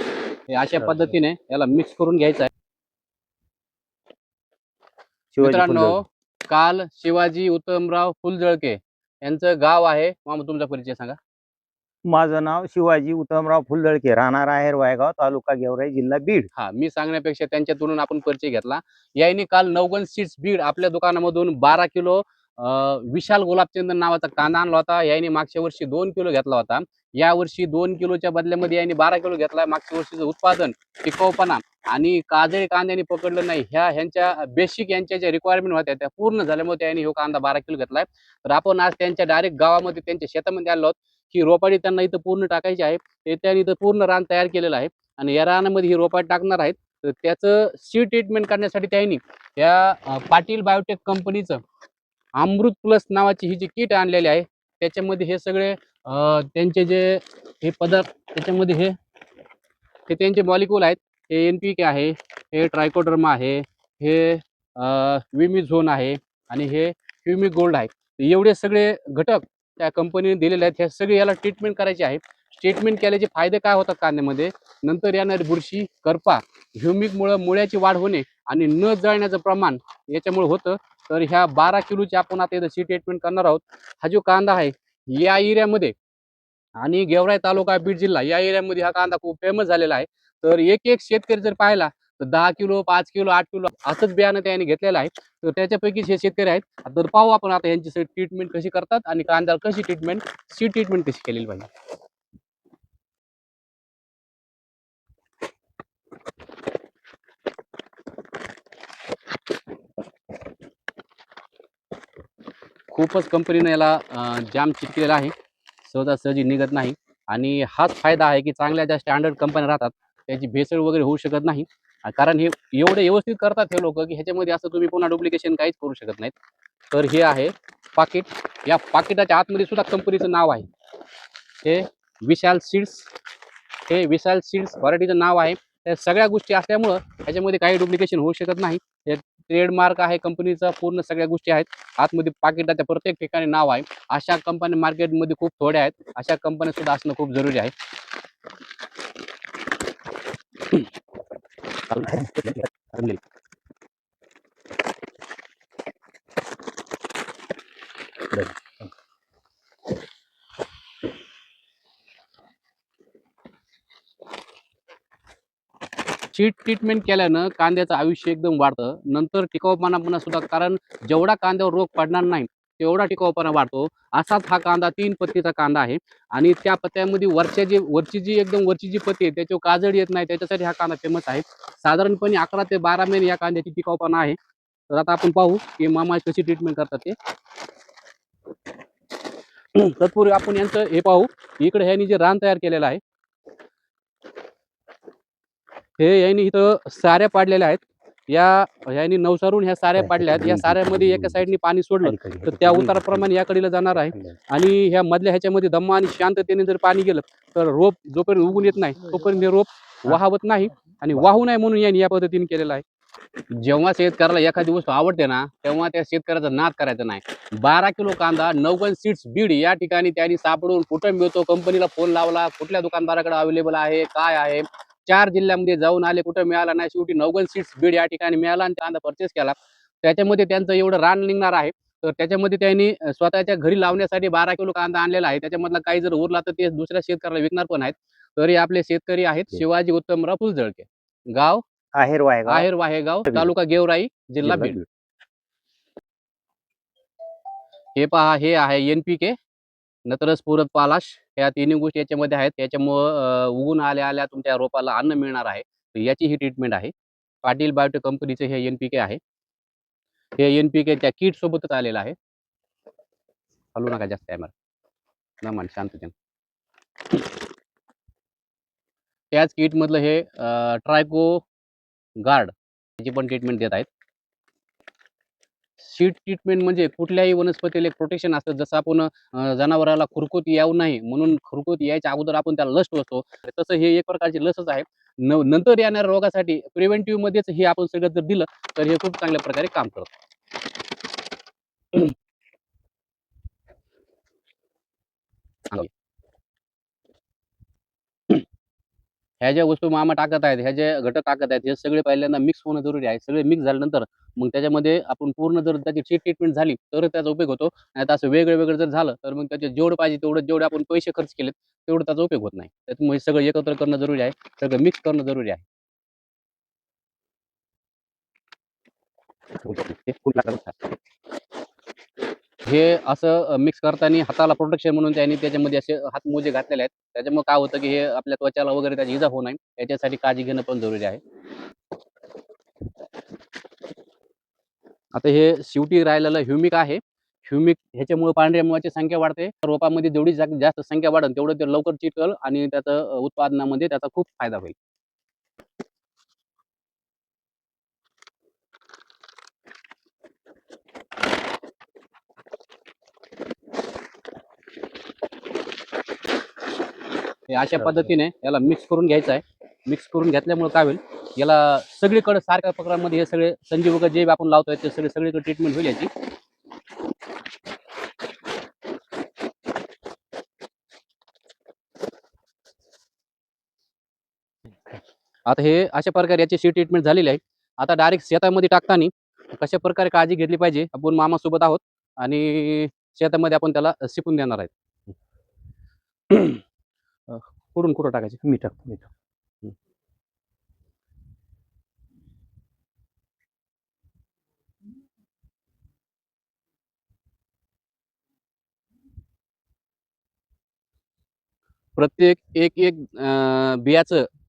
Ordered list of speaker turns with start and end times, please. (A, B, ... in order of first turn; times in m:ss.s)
0:00.5-0:02.5 A
0:05.3-0:06.0 B
0:05.4-0:11.2 A
0:12.0-0:16.5 B
0:16.5-0:51.6 A
0:52.3-0:59.0 A
1:00.1-1:25.9 A
1:26.8-1:41.7 A
1:52.9-2:06.3 A
2:06.9-2:10.7 A
2:11.6-2:13.1 A
2:13.9-2:27.7 A
2:31.9-2:33.2 A
2:32.1-2:32.5 B
2:46.3-3:04.4 A
3:04.9-3:07.2 A
3:09.7-3:13.0 A
3:16.0-3:32.8 A
3:20.0-3:23.3 B
3:23.9-3:24.4 B
3:33.5-4:01.6 A
4:01.9-4:02.7 B
4:02.5-4:04.8 A
4:04.4-4:04.8 B
4:08.0-4:09.4 A
4:10.0-4:16.9 A
4:17.4-4:19.2 A
4:20.4-4:22.1 A
4:23.7-4:24.5 A
4:25.4-4:26.1 A
4:29.3-4:31.4 A
4:32.2-4:33.9 A
4:35.8-4:50.1 A
4:59.4-5:15.6 A
5:19.7-5:20.8 A
5:22.6-5:31.2 A
5:35.1-5:44.7 A
5:57.5-6:06.1 A
6:15.4-6:24.7 A
6:26.3-6:26.6 A
6:27.3-6:28.4 A
6:28.4-6:29.1 B
6:42.0-6:44.3 A